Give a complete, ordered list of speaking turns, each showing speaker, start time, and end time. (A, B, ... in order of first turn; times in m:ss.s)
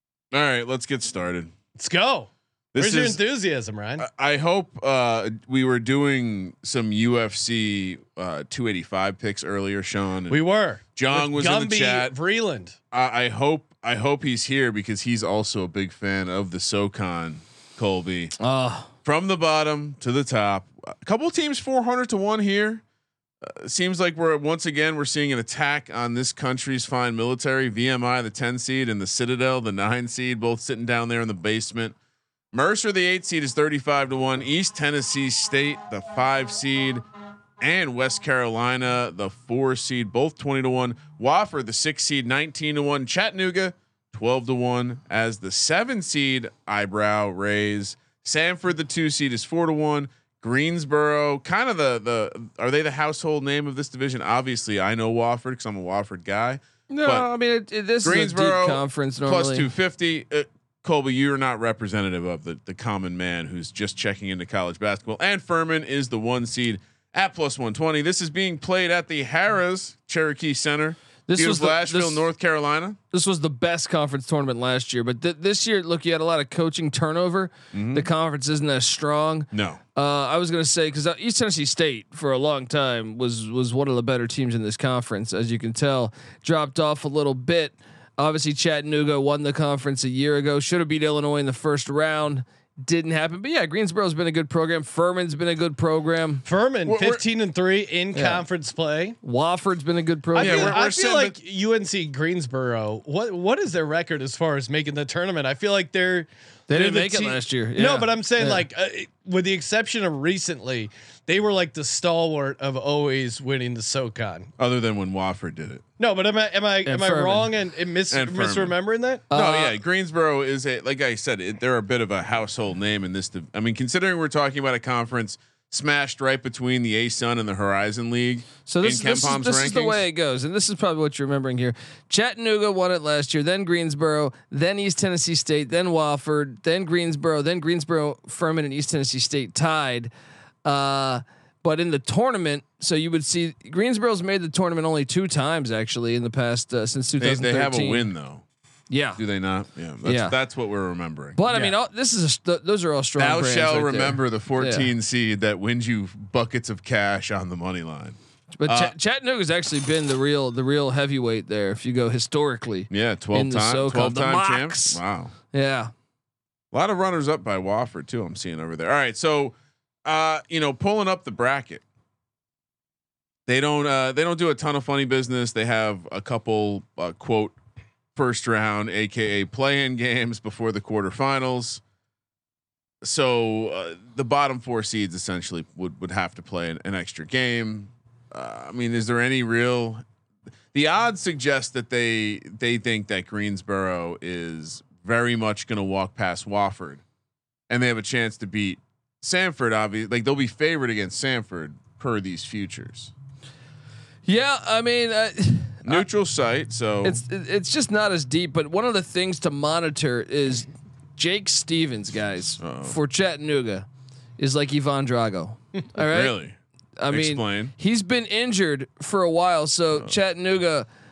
0:00.3-0:01.5 A
0:01.8-0:04.0 B
0:02.7-0:03.2 A
0:04.0-0:10.4 A
0:10.3-0:12.8 B
0:10.9-0:12.2 A
0:12.9-0:18.3 A
0:18.4-0:18.9 C
0:19.0-0:22.8 A
0:23.4-0:32.0 A
0:32.5-0:37.0 A
0:37.6-0:57.3 A
0:56.9-0:59.7 C
0:58.0-1:13.0 A
1:11.3-1:12.2 C
1:13.1-1:36.4 C
1:17.7-1:18.1 A
1:19.5-1:19.8 A
1:36.4-1:39.2 B
1:36.8-1:37.2 A
1:38.1-1:38.4 C
1:39.2-1:40.8 C
1:40.3-1:54.5 B
1:40.3-1:41.3 A
1:46.7-1:48.7 C
1:54.6-1:55.8 A
1:56.0-1:59.2 B
1:56.8-1:57.5 C
1:58.1-1:58.8 A
1:59.3-1:59.8 C
1:59.3-2:10.0 A
2:08.7-2:20.1 C
2:20.6-2:28.1 C
2:27.2-2:28.4 A
2:28.9-2:29.2 C
2:29.2-2:31.7 A
2:30.0-2:30.4 C
2:31.4-2:34.9 C
2:33.2-2:38.9 A
2:38.6-2:45.0 C
2:42.9-2:45.3 A
2:45.5-2:45.9 C
2:46.7-2:51.8 A
2:53.5-2:57.6 A
2:58.2-3:01.8 A
3:03.0-3:10.0 A
3:10.7-3:17.0 A
3:17.7-3:23.1 A
3:24.3-3:26.0 C
3:25.8-3:27.2 A
3:27.0-3:33.8 C
3:32.6-3:33.0 A
3:34.4-3:36.4 C
3:36.0-3:36.6 A
3:37.0-3:40.9 C
3:37.1-3:37.7 A